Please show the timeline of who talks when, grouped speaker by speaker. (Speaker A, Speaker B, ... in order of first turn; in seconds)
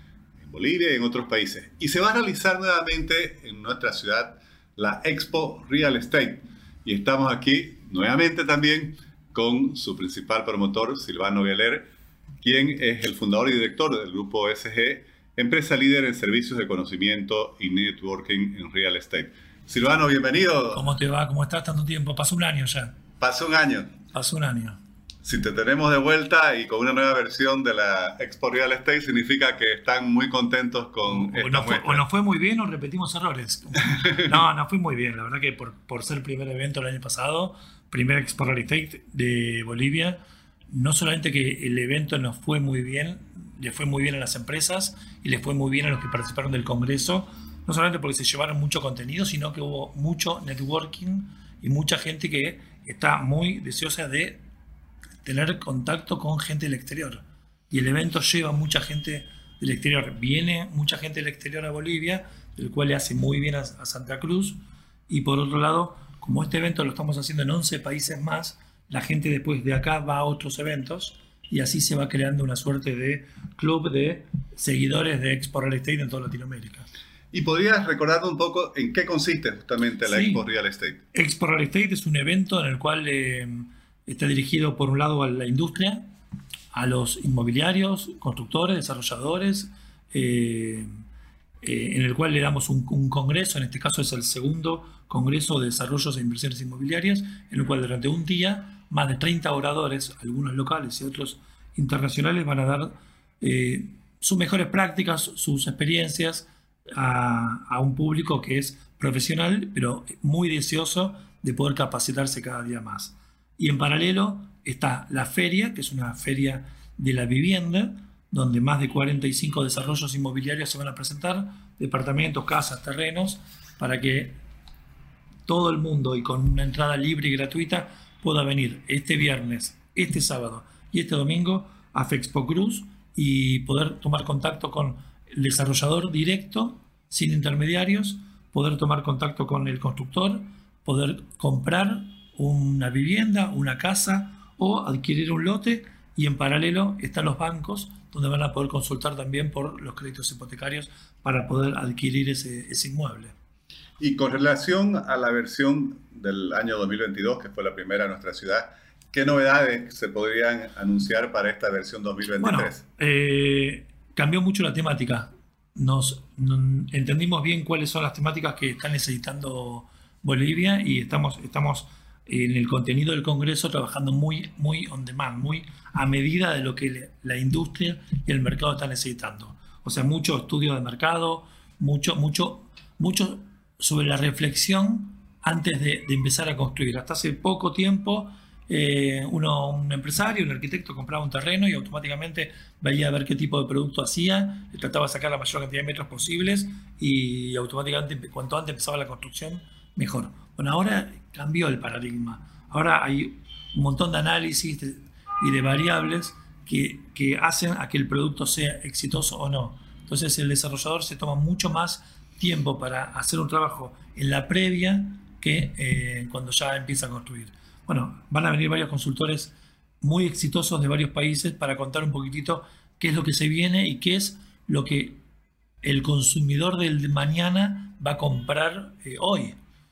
Speaker A: 0.4-11.9, 12.4-20.8, 23.2-23.9, 25.2-32.0, 77.3-81.0, 154.0-162.8
Speaker B: 20.7-22.9, 24.1-24.8, 31.1-40.2, 40.7-54.4, 55.2-64.6, 65.1-76.9, 80.1-80.5, 81.1-86.0, 86.7-90.9, 91.6-124.4, 125.5-153.3, 162.4-225.2, 225.8-229.6